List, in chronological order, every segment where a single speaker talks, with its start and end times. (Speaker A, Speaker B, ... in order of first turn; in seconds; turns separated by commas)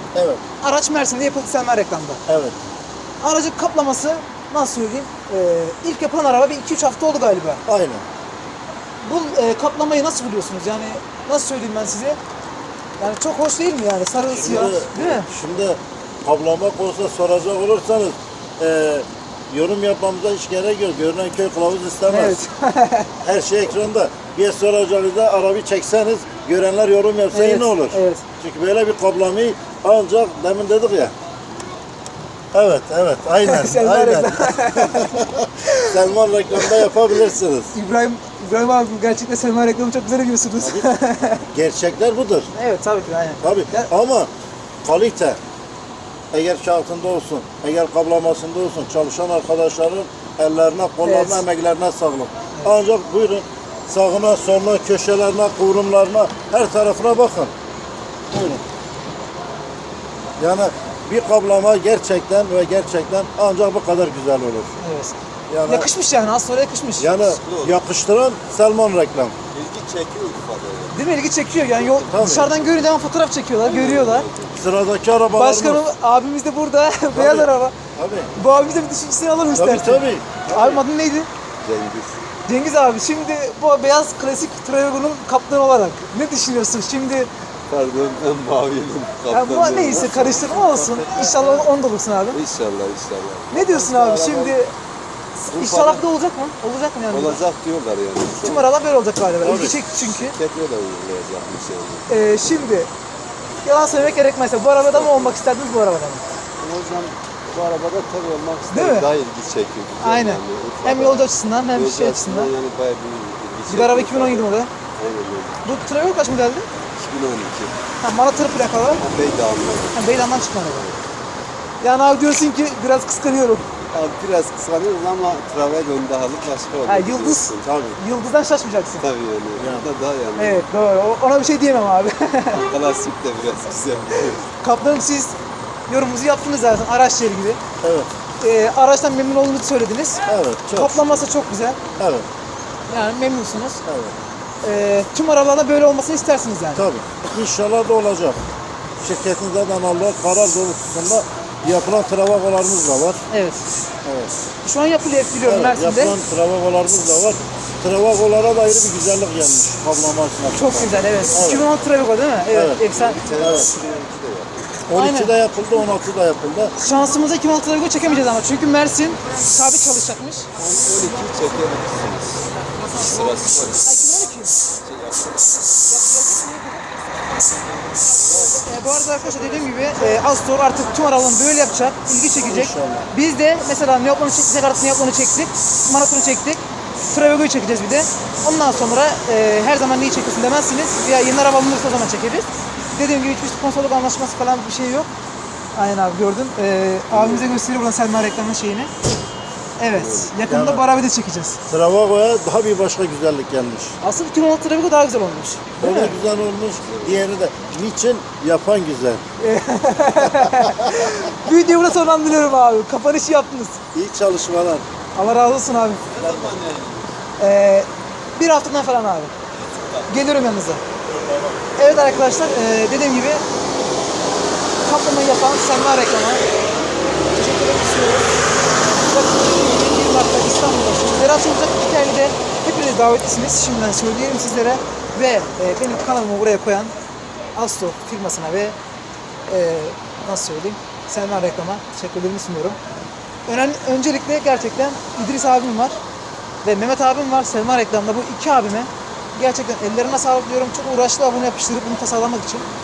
Speaker A: 0.1-0.4, Speaker B: 0.6-2.2, Speaker A: 2.3-2.6, Speaker B: 3.2-7.6, Speaker A: 7.7-8.1, Speaker B: 9.0-12.2, Speaker B: 13.0-15.3, Speaker A: 14.3-22.4, Speaker B: 22.1-23.1, Speaker A: 23.2-31.1, Speaker B: 27.3-28.2, Speaker A: 32.5-37.7, Speaker B: 33.4-36.0, Speaker B: 36.6-36.9, Speaker B: 37.7-41.5, Speaker A: 40.6-40.9, Speaker A: 41.5-42.5, Speaker B: 42.5-43.9, Speaker A: 43.4-44.3, Speaker A: 44.8-45.4, Speaker A: 46.3-57.5, Speaker B: 51.0-51.5, Speaker A: 58.3-58.6, Speaker A: 60.4-64.8, Speaker B: 64.8-65.2, Speaker A: 65.5-65.9, Speaker B: 65.7-67.3, Speaker A: 67.0-69.4, Speaker C: 67.3-67.8, Speaker C: 69.5-71.0, Speaker B: 70.9-74.3, Speaker C: 71.8-72.7, Speaker A: 72.0-72.5, Speaker C: 73.6-74.6, Speaker A: 74.6-75.8, Speaker B: 75.3-77.8, Speaker A: 77.1-78.3, Speaker B: 78.3-81.3, Speaker A: 79.5-80.3, Speaker C: 80.5-80.8, Speaker C: 81.6-82.2, Speaker B: 82.5-87.3, Speaker C: 87.7-91.7, Speaker B: 89.3-92.4, Speaker C: 92.3-94.6, Speaker B: 93.5-94.7, Speaker C: 95.5-96.0, Speaker B: 95.5-97.4, Speaker C: 97.1-98.7, Speaker B: 98.4-100.4, Speaker A: 99.4-99.8, Speaker C: 99.4-102.1, Speaker B: 102.1-102.9, Speaker B: 103.7-106.2, Speaker C: 104.8-105.4, Speaker C: 106.6-115.6, Speaker B: 108.7-109.1, Speaker B: 110.0-112.5, Speaker B: 113.7-114.7, Speaker B: 115.6-116.7, Speaker C: 116.9-117.8, Speaker B: 118.0-119.0, Speaker C: 119.0-121.0, Speaker B: 119.9-120.8, Speaker B: 121.8-123.7, Speaker C: 123.9-127.9, Speaker B: 126.8-129.1, Speaker A: 127.7-128.0, Speaker C: 129.0-130.7, Speaker A: 129.6-129.9, Speaker B: 130.4-132.6, Speaker C: 132.5-134.5, Speaker B: 134.6-135.3, Speaker B: 135.9-137.6, Speaker A: 137.8-138.1, Speaker B: 138.4-141.8, Speaker A: 140.3-141.2, Speaker A: 142.0-142.3, Speaker B: 142.9-143.8, Speaker A: 143.9-144.2, Speaker B: 144.6-146.9, Speaker A: 146.8-148.4, Speaker A: 149.0-153.2, Speaker B: 153.3-153.7, Speaker A: 154.0-154.3, Speaker B: 154.6-156.2, Speaker A: 155.5-161.7, Speaker B: 160.5-163.4, Speaker A: 162.5-162.8, Speaker C: 162.9-164.6, Speaker A: 163.4-163.7, Speaker A: 164.9-166.8, Speaker B: 164.9-165.4, Speaker B: 166.8-170.5, Speaker C: 170.6-174.0, Speaker B: 172.8-173.1, Speaker B: 173.8-174.6, Speaker C: 174.8-175.6, Speaker B: 175.9-177.0, Speaker C: 178.2-178.6, Speaker B: 178.5-195.1, Speaker A: 182.4-183.1, Speaker B: 195.8-198.9, Speaker C: 197.1-197.6, Speaker B: 199.8-201.6, Speaker C: 199.9-200.3, Speaker A: 200.5-200.8, Speaker A: 201.7-204.0, Speaker B: 204.0-206.1, Speaker A: 205.8-209.2, Speaker C: 205.9-207.3, Speaker B: 209.4-213.8, Speaker A: 213.9-214.9, Speaker B: 215.1-216.1, Speaker C: 216.1-217.2, Speaker A: 216.2-216.6, Speaker B: 217.4-219.3, Speaker C: 219.6-220.1, Speaker B: 220.1-220.8, Speaker A: 221.1-221.8, Speaker B: 221.8-223.4, Speaker B: 224.8-226.4, Speaker B: 227.3-228.3, Speaker B: 229.0-236.9, Speaker B: 237.5-238.8, Speaker B: 239.5-242.8, Speaker B: 243.5-246.0, Speaker B: 246.6-252.7